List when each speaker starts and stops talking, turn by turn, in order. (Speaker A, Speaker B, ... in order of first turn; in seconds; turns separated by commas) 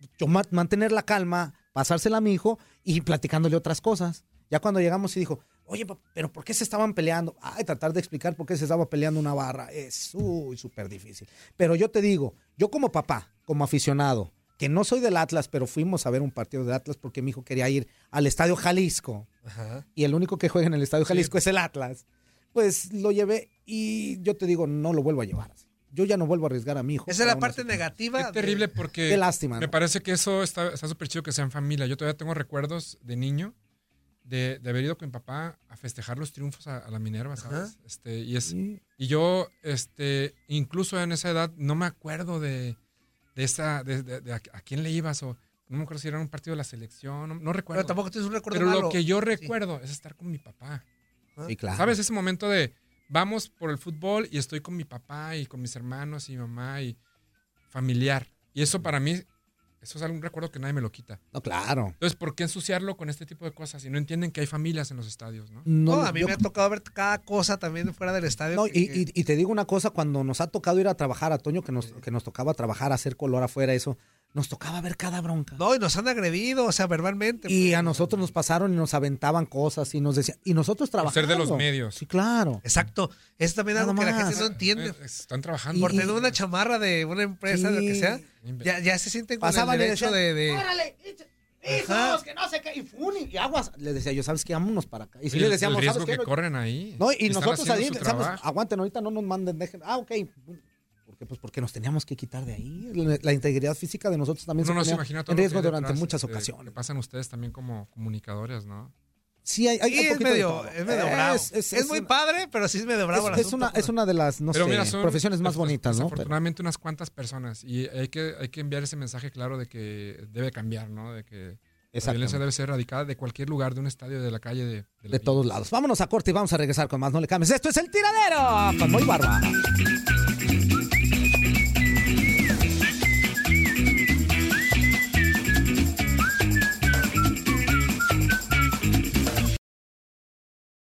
Speaker A: 0.2-19.3, Speaker B: 19.4-19.8, Speaker A: 19.9-27.8, Speaker C: 21.1-21.4, Speaker B: 27.1-28.7, Speaker C: 28.2-33.5, Speaker A: 29.1-29.7, Speaker C: 34.2-42.8, Speaker B: 37.4-37.7, Speaker A: 38.5-38.8, Speaker C: 43.3-48.0, Speaker B: 47.7-49.5, Speaker C: 48.5-50.8, Speaker A: 51.5-52.0, Speaker C: 51.7-57.0, Speaker C: 57.7-59.2, Speaker C: 59.8-61.2, Speaker A: 61.3-62.0, Speaker C: 62.0-65.7, Speaker A: 65.7-66.4, Speaker B: 65.9-69.0, Speaker A: 68.5-75.6, Speaker B: 75.6-78.1, Speaker A: 77.5-82.6, Speaker C: 81.0-82.0, Speaker B: 82.6-85.0, Speaker A: 83.7-84.5, Speaker C: 84.3-86.3, Speaker B: 85.7-90.7, Speaker A: 85.8-86.1, Speaker A: 87.5-88.2, Speaker C: 88.4-88.7, Speaker A: 89.4-96.3, Speaker B: 91.7-92.2, Speaker C: 95.3-98.4, Speaker A: 97.0-106.7, Speaker C: 104.6-108.9, Speaker A: 109.4-112.1, Speaker B: 109.9-113.9, Speaker A: 113.1-116.3, Speaker C: 114.5-125.4, Speaker A: 121.9-122.4, Speaker A: 125.1-129.6